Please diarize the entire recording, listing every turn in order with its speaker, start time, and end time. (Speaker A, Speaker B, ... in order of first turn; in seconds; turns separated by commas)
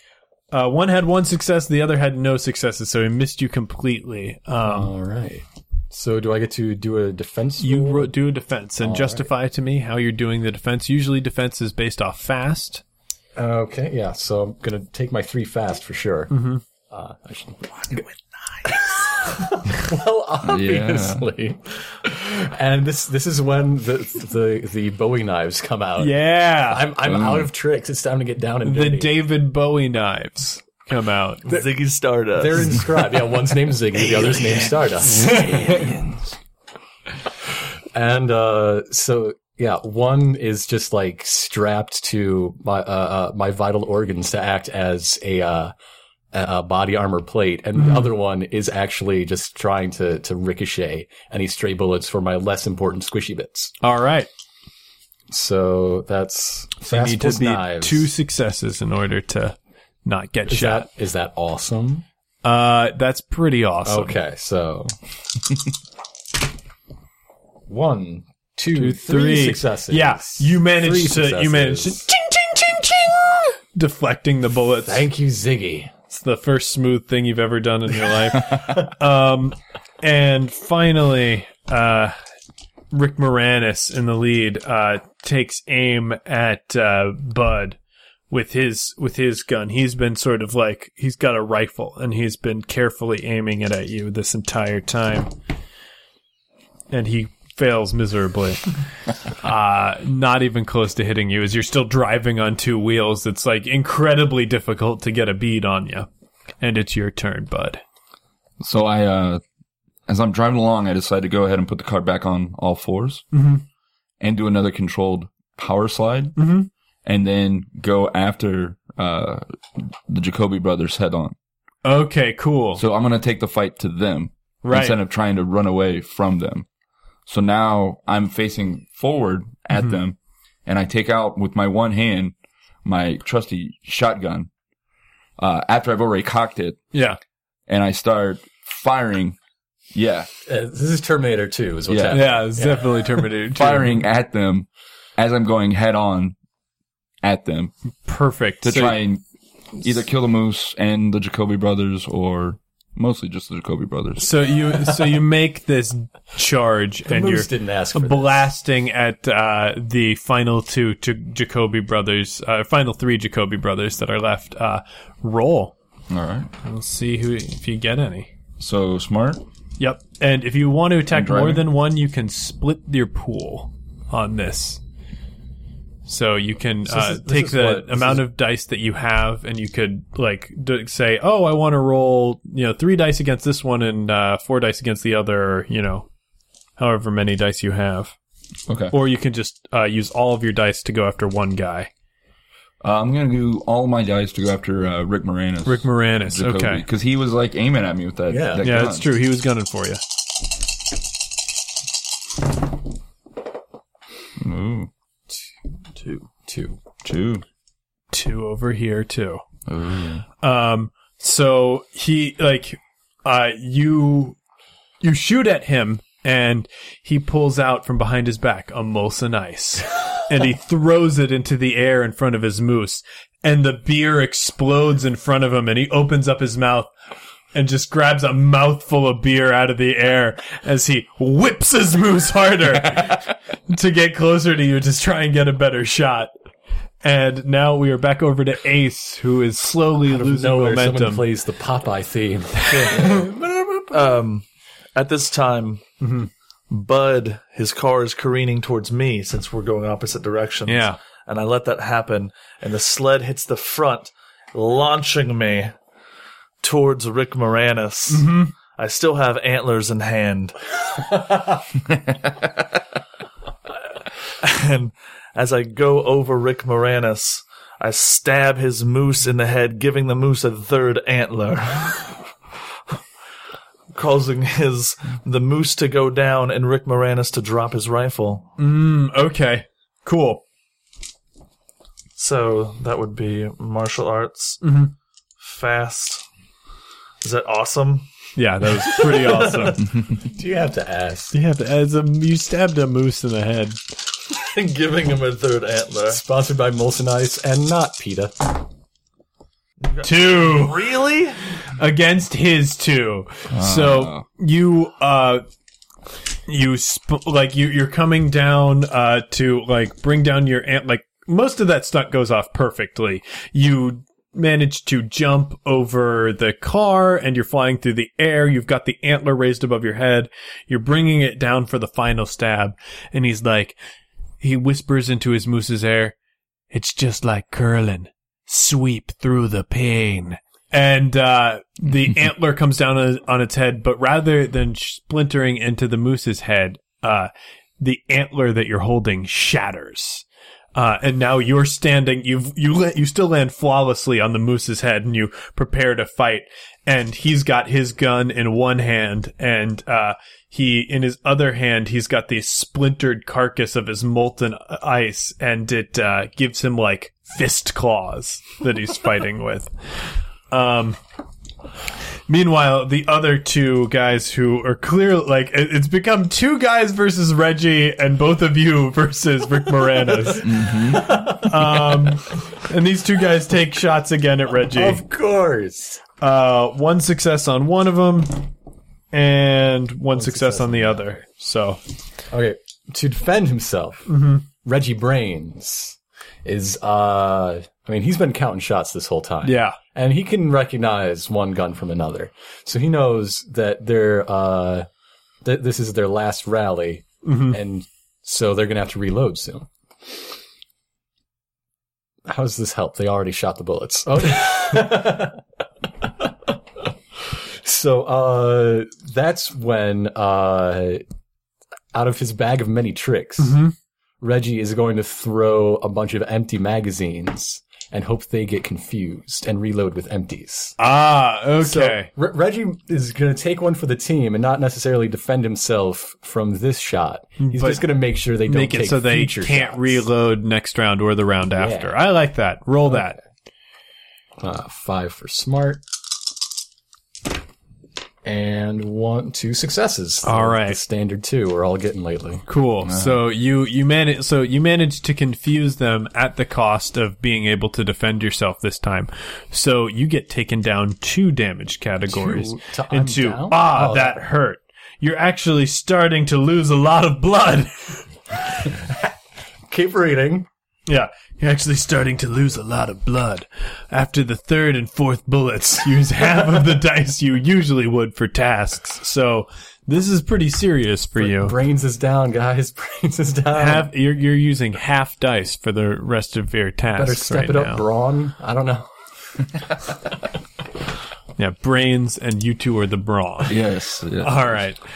Speaker A: 0.5-4.9, Speaker B: 4.6-8.1, Speaker A: 7.6-12.8, Speaker B: 8.8-9.3, Speaker B: 13.4-18.1, Speaker A: 16.3-16.6, Speaker B: 18.6-29.2, Speaker C: 20.4-21.2, Speaker A: 26.0-26.9, Speaker C: 27.0-27.5, Speaker A: 28.6-31.4, Speaker D: 31.4-32.8, Speaker B: 32.3-35.9, Speaker D: 34.0-34.9, Speaker A: 35.1-35.7, Speaker C: 35.3-36.3, Speaker B: 37.9-45.7, Speaker B: 46.3-53.7, Speaker A: 47.8-48.1, Speaker A: 53.8-54.3, Speaker B: 55.3-58.1, Speaker A: 56.8-60.9, Speaker B: 60.5-62.0, Speaker A: 62.4-64.2, Speaker B: 63.9-64.9, Speaker B: 67.7-72.1, Speaker A: 68.7-75.1, Speaker B: 74.8-75.9, Speaker A: 76.1-82.2, Speaker A: 82.9-87.8, Speaker A: 88.3-95.3, Speaker A: 96.9-98.7, Speaker A: 99.4-106.1, Speaker A: 106.6-107.8, Speaker C: 108.6-109.4, Speaker C: 110.1-113.3, Speaker A: 113.3-113.6, Speaker C: 114.2-116.4, Speaker A: 116.4-116.7, Speaker C: 117.0-121.3, Speaker A: 121.8-122.8, Speaker C: 122.8-126.7, Speaker A: 124.6-125.0, Speaker C: 127.3-134.5, Speaker C: 135.4-136.9, Speaker A: 136.9-137.2, Speaker C: 137.7-139.4, Speaker C: 139.9-140.3, Speaker B: 140.5-143.1, Speaker C: 141.9-142.2, Speaker A: 142.1-144.0, Speaker C: 143.6-146.3, Speaker C: 147.2-147.7, Speaker A: 148.1-149.0, Speaker C: 148.6-149.2, Speaker C: 149.8-154.3, Speaker A: 154.2-165.7, Speaker B: 157.1-158.4, Speaker C: 166.1-166.5, Speaker A: 166.6-168.3, Speaker C: 168.6-169.4, Speaker A: 169.8-174.8, Speaker C: 171.1-171.7, Speaker A: 176.1-186.1, Speaker B: 176.8-178.3, Speaker A: 186.8-188.2, Speaker C: 188.7-188.9, Speaker A: 188.9-191.9, Speaker C: 192.8-199.1, Speaker A: 195.7-196.8, Speaker B: 198.3-198.9, Speaker A: 198.6-200.0, Speaker C: 204.4-204.9, Speaker B: 206.0-206.8, Speaker C: 207.0-207.4, Speaker A: 208.1-209.4, Speaker C: 209.7-210.2, Speaker A: 210.4-214.4, Speaker A: 215.0-226.9, Speaker A: 227.5-236.3, Speaker A: 237.0-241.3, Speaker B: 240.1-243.7, Speaker A: 242.6-243.3, Speaker D: 243.9-244.4, Speaker D: 245.0-245.8, Speaker A: 246.0-246.3, Speaker D: 246.7-255.8, Speaker A: 250.7-251.0, Speaker D: 256.6-260.6, Speaker A: 258.1-258.5, Speaker C: 261.9-262.5, Speaker D: 264.4-272.3, Speaker D: 273.9-278.5, Speaker A: 278.6-280.4, Speaker D: 282.2-284.6, Speaker A: 284.6-284.9, Speaker D: 285.4-286.2, Speaker D: 287.2-288.1, Speaker A: 288.4-289.8, Speaker D: 288.6-289.9, Speaker B: 290.2-291.3, Speaker A: 291.3-293.8, Speaker D: 294.3-296.2, Speaker B: 296.1-298.6, Speaker D: 299.8-301.4, Speaker A: 300.0-300.8, Speaker A: 301.8-305.4, Speaker C: 303.5-304.2, Speaker A: 306.5-323.8, Speaker A: 324.4-326.1, Speaker A: 326.7-359.7, Speaker A: 360.5-361.0, Speaker A: 362.3-375.0, Speaker C: 370.4-371.4, Speaker B: 370.8-372.1, Speaker B: 374.7-376.0, Speaker A: 376.2-378.5, Speaker A: 379.1-381.8, Speaker B: 380.1-381.2, Speaker B: 382.3-394.9, Speaker A: 384.1-384.4, Speaker A: 389.4-389.8, Speaker B: 395.4-399.7, Speaker A: 397.2-397.6, Speaker B: 402.3-405.4, Speaker B: 406.2-406.5, Speaker B: 407.3-411.0, Speaker B: 411.9-413.6, Speaker A: 413.4-413.7, Speaker B: 414.2-420.8, Speaker A: 420.8-422.1, Speaker B: 421.6-430.1, Speaker A: 427.4-427.9, Speaker A: 428.4-433.2, Speaker B: 431.6-431.9, Speaker B: 434.4-435.8, Speaker B: 438.2-442.4, Speaker A: 440.2-440.8, Speaker A: 442.5-458.0, Speaker C: 442.8-443.2, Speaker B: 452.1-454.3, Speaker B: 459.7-460.5, Speaker A: 460.9-471.6, Speaker B: 471.2-473.9, Speaker A: 473.5-477.9, Speaker B: 476.9-478.9, Speaker A: 481.4-483.6, Speaker C: 483.5-484.6, Speaker A: 484.2-484.8